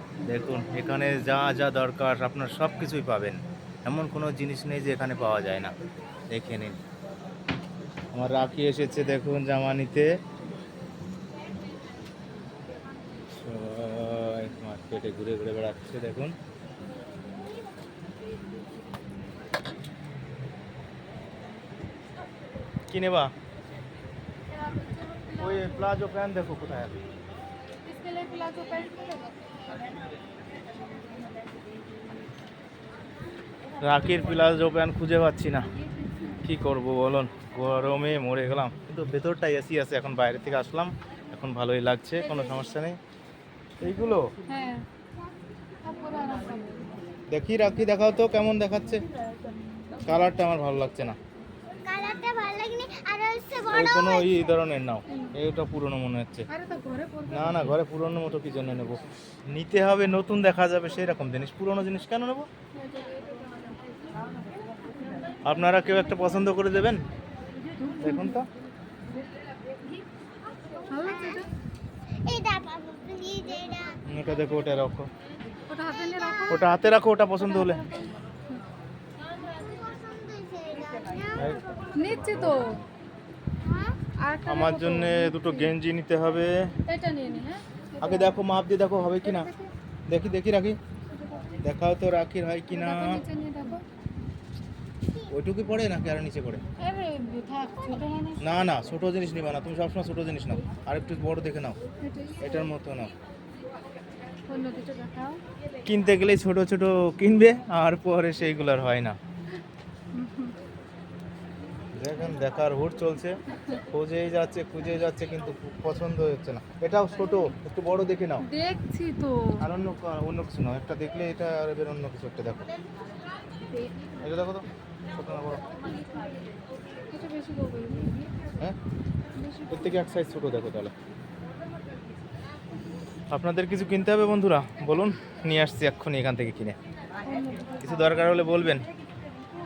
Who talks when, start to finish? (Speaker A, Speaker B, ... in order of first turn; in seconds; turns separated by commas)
Speaker A: 0.2-5.7, Speaker A: 6.3-6.8, Speaker A: 8.1-10.1, Speaker A: 13.3-16.4, Speaker A: 22.9-23.3, Speaker B: 24.5-25.9, Speaker A: 25.4-27.0, Speaker B: 27.9-29.4, Speaker A: 33.8-35.7, Speaker B: 36.0-36.4, Speaker A: 36.4-43.0, Speaker A: 43.8-44.3, Speaker B: 44.5-44.9, Speaker B: 45.8-46.9, Speaker A: 47.3-49.0, Speaker A: 50.0-51.2, Speaker C: 51.8-54.6, Speaker A: 53.7-56.5, Speaker B: 55.1-55.4, Speaker B: 56.5-57.8, Speaker A: 57.3-62.5, Speaker B: 62.8-63.8, Speaker A: 65.4-67.0, Speaker B: 67.8-68.4, Speaker A: 68.0-68.5, Speaker B: 70.9-71.5, Speaker C: 71.0-71.5, Speaker C: 72.2-74.0, Speaker A: 74.0-75.1, Speaker B: 75.7-76.8, Speaker C: 76.0-76.5, Speaker A: 76.5-77.8, Speaker B: 77.4-78.6, Speaker C: 79.3-81.6, Speaker A: 81.3-82.9, Speaker B: 82.0-82.8, Speaker C: 83.6-84.0, Speaker B: 84.1-85.7, Speaker A: 84.5-86.7, Speaker B: 86.8-88.4, Speaker A: 88.0-89.5, Speaker B: 89.2-89.7, Speaker A: 90.1-90.8, Speaker A: 91.6-93.2, Speaker B: 92.7-93.8, Speaker A: 95.3-96.6, Speaker B: 96.8-98.5, Speaker A: 98.4-101.8, Speaker B: 102.0-102.7, Speaker A: 102.4-103.1, Speaker B: 104.5-105.4, Speaker A: 105.9-109.2, Speaker B: 110.1-110.5, Speaker A: 111.9-118.5, Speaker B: 118.4-119.7, Speaker A: 119.6-122.8, Speaker B: 123.8-124.1, Speaker A: 124.2-125.7, Speaker B: 127.1-128.3, Speaker B: 129.3-130.0, Speaker A: 129.7-130.9, Speaker A: 133.3-136.8, Speaker B: 137.2-138.2, Speaker A: 137.8-138.9